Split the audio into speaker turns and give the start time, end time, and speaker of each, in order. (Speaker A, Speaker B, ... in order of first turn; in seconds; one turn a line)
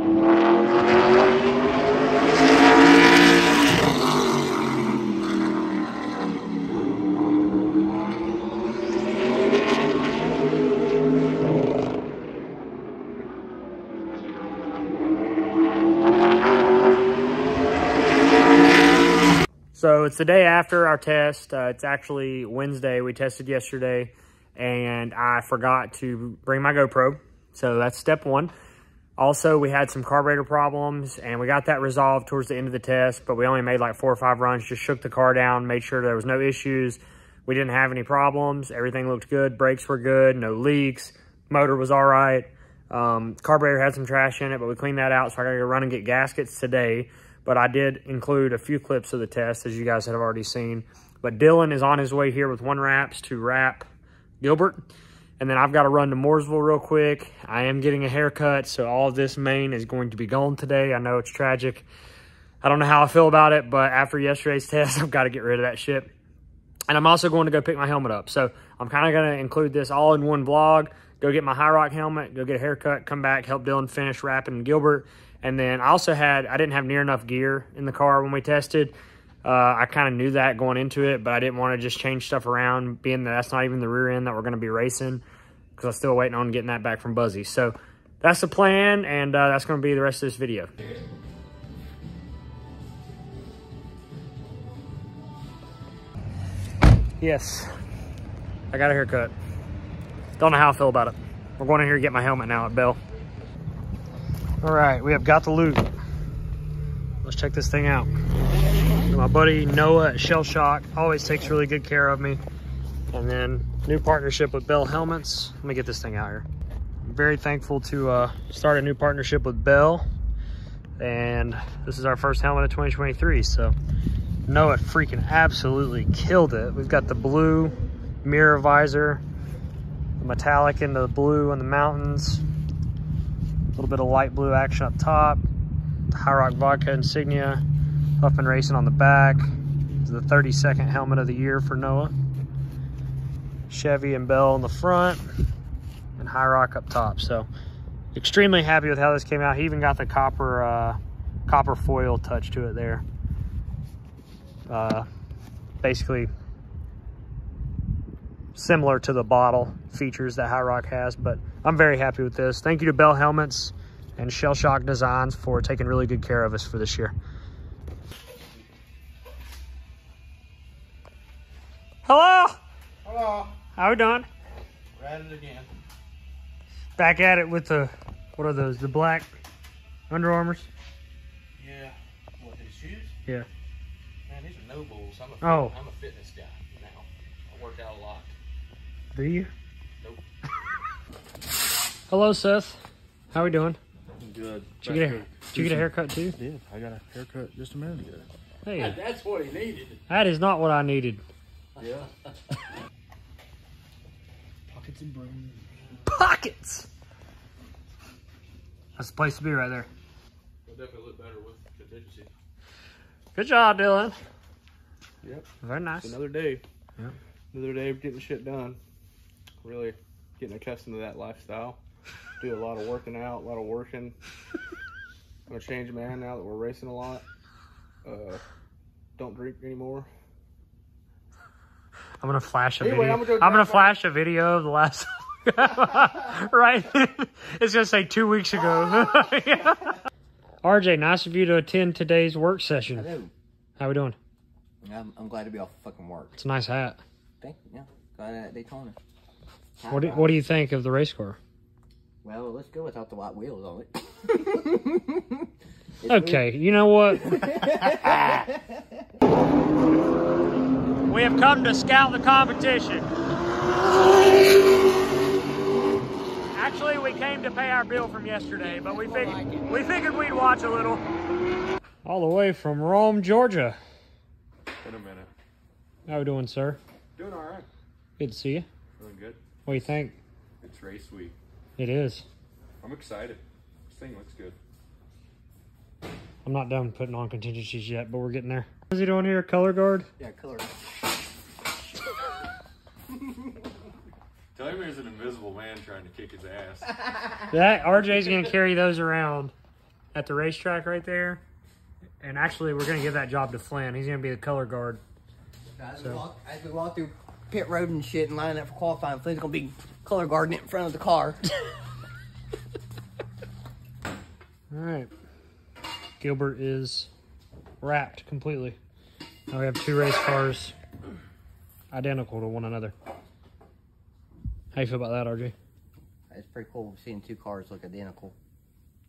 Speaker A: 19.7-28.5
Speaker A: 29.2-53.9
Speaker A: 54.4-54.8
Speaker A: 55.4-61.9
Speaker A: 62.6-66.1
Speaker A: 66.9-85.2
Speaker A: 85.8-90.7
Speaker A: 97.2-97.7
Speaker A: 98.7-99.3
Speaker A: 100.4-103.0
Speaker A: 104.6-105.9
Speaker A: 107.2-108.1
Speaker A: 109.1-112.4
Speaker A: 113.1-116.5
Speaker A: 117.0-120.0
Speaker A: 121.0-123.8
Speaker A: 124.5-129.2
Speaker A: 130.2-132.4
Speaker A: 133.8-135.4
Speaker A: 136.1-137.6
Speaker A: 138.2-139.5
Speaker A: 140.0-142.1
Speaker A: 143.7-145.2
Speaker A: 146.2-147.5
Speaker A: 148.1-153.0
Speaker A: 154.7-155.1
Speaker A: 155.8-156.3
Speaker A: 158.6-167.1
Speaker A: 172.1-172.6
Speaker B: 173.0-173.6
Speaker A: 173.8-174.3
Speaker B: 174.9-175.7
Speaker A: 177.0-179.3
Speaker A: 180.1-180.7
Speaker B: 181.6-183.1
Speaker B: 184.3-188.3
Speaker A: 185.4-185.8
Speaker A: 189.1-189.5
Speaker A: 192.1-192.8
Speaker A: 193.3-193.8
Speaker C: 194.2-195.9
Speaker A: 194.8-196.4
Speaker C: 196.4-199.9
Speaker A: 198.7-199.0
Speaker B: 199.2-200.0
Speaker A: 200.1-201.2
Speaker C: 201.8-202.1
Speaker C: 204.7-205.6
Speaker A: 206.1-206.9
Speaker A: 209.0-209.9
Speaker B: 210.7-212.3
Speaker A: 213.3-214.2
Speaker A: 215.6-216.1
Speaker B: 216.0-216.6
Speaker B: 217.5-218.8
Speaker B: 219.6-221.8
Speaker B: 222.4-224.2
Speaker B: 225.5-227.2
Speaker B: 228.0-228.4
Speaker B: 229.2-230.1
Speaker A: 232.2-240.0
Speaker B: 232.8-233.9
Speaker A: 240.6-243.1
Speaker D: 242.9-243.3
Speaker A: 243.8-244.2
Speaker D: 244.8-246.3
Speaker A: 246.4-247.0
Speaker D: 247.4-249.0
Speaker D: 249.8-250.4
Speaker A: 249.9-251.4
Speaker D: 252.2-255.5
Speaker D: 256.0-256.4
Speaker A: 256.1-258.5
Speaker D: 257.1-258.8
Speaker A: 261.1-263.1
Speaker A: 266.5-271.0
Speaker A: 272.0-273.8
Speaker C: 274.8-275.3
Speaker A: 276.1-276.8
Speaker C: 277.2-277.7
Speaker A: 278.2-278.7
Speaker C: 279.0-279.8
Speaker A: 279.7-280.2
Speaker C: 280.6-281.4
Speaker A: 281.8-282.2
Speaker C: 282.8-284.6
Speaker A: 286.4-290.1
Speaker D: 290.2-290.8
Speaker C: 294.6-297.0
Speaker A: 297.5-299.5
Speaker A: 300.1-301.4
Speaker A: 302.2-305.0
Speaker D: 305.8-311.5
Speaker A: 306.0-306.2
Speaker A: 314.7-315.1
Speaker A: 316.2-317.1
Speaker A: 317.8-318.8
Speaker A: 319.5-320.8
Speaker A: 321.9-322.9
Speaker A: 324.7-325.5
Speaker D: 326.3-328.4